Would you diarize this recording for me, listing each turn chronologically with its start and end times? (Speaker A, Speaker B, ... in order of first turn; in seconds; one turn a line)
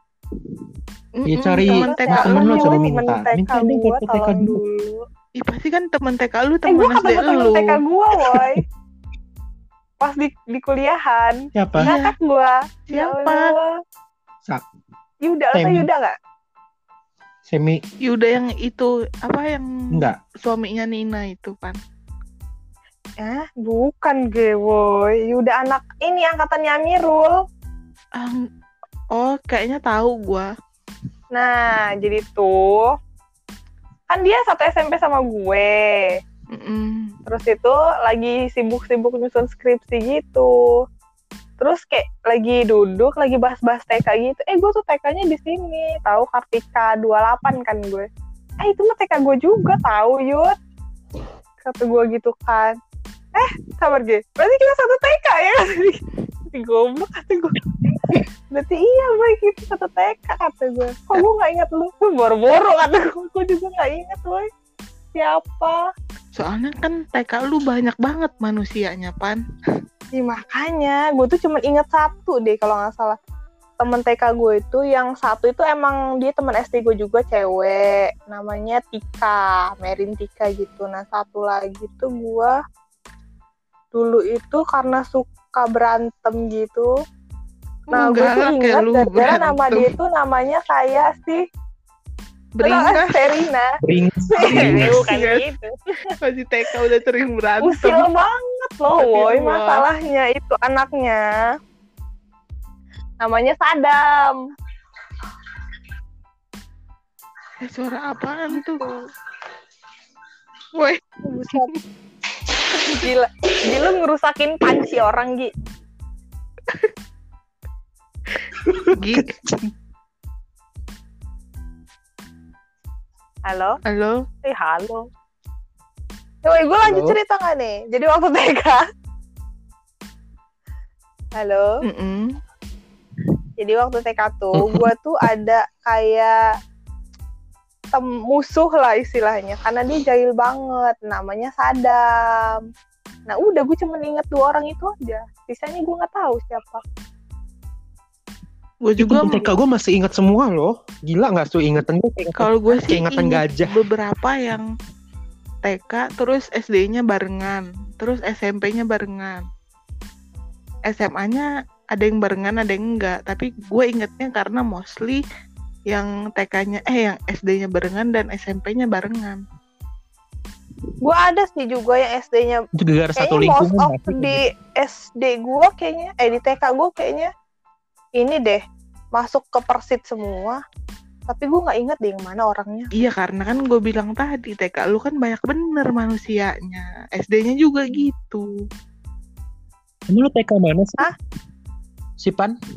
Speaker A: 1.2-2.9
Speaker B: 1.3-4.6
Speaker C: 1.6-5.0
Speaker A: 5.4-7.7
Speaker C: 6.7-8.6
Speaker B: 8.3-8.6
Speaker C: 10.0-13.7
Speaker B: 11.6-11.9
Speaker A: 11.8-12.1
Speaker A: 12.9-13.5
Speaker C: 15.2-16.1
Speaker B: 15.5-15.9
Speaker B: 17.5-17.8
Speaker A: 18.0-21.8
Speaker C: 23.2-27.3
Speaker A: 29.1-30.5
Speaker C: 31.3-32.9
Speaker C: 34.1-36.1
Speaker A: 36.5-37.1
Speaker C: 37.2-40.5
Speaker C: 41.6-48.1
Speaker C: 48.6-50.5
Speaker C: 51.6-52.8
Speaker C: 53.3-57.6
Speaker B: 57.6-58.2
Speaker C: 58.5-64.5
Speaker C: 65.1-65.8
Speaker A: 66.3-69.4
Speaker C: 70.1-73.2
Speaker C: 73.8-82.5
Speaker C: 83.9-86.9
Speaker A: 87.9-89.9
Speaker C: 87.9-91.4
Speaker A: 92.6-93.3
Speaker C: 92.6-93.7
Speaker B: 93.8-95.0
Speaker C: 94.3-95.7
Speaker A: 94.4-95.4
Speaker A: 96.2-98.1
Speaker C: 97.6-101.3
Speaker A: 99.0-99.8
Speaker C: 103.2-104.3
Speaker A: 107.6-108.9
Speaker C: 108.5-109.0
Speaker A: 110.8-111.8
Speaker C: 111.2-111.7
Speaker C: 112.8-115.5
Speaker A: 118.4-119.6
Speaker B: 118.6-119.5
Speaker C: 123.5-123.8
Speaker A: 123.8-124.2
Speaker C: 124.4-125.0
Speaker C: 126.4-128.8
Speaker B: 126.8-127.2
Speaker C: 131.4-131.7
Speaker A: 131.8-132.3
Speaker C: 133.6-136.4
Speaker B: 134.5-134.9
Speaker C: 137.9-142.7
Speaker C: 143.3-146.8
Speaker A: 148.8-149.5
Speaker B: 149.0-153.8
Speaker A: 152.4-154.7
Speaker A: 155.6-159.4
Speaker A: 160.9-165.2
Speaker A: 165.9-169.4
Speaker C: 171.0-172.6
Speaker B: 172.8-174.4
Speaker C: 173.2-177.3
Speaker C: 178.2-178.6
Speaker C: 179.1-180.6
Speaker C: 181.3-182.9
Speaker A: 182.9-188.5
Speaker B: 190.1-191.1
Speaker B: 192.2-192.5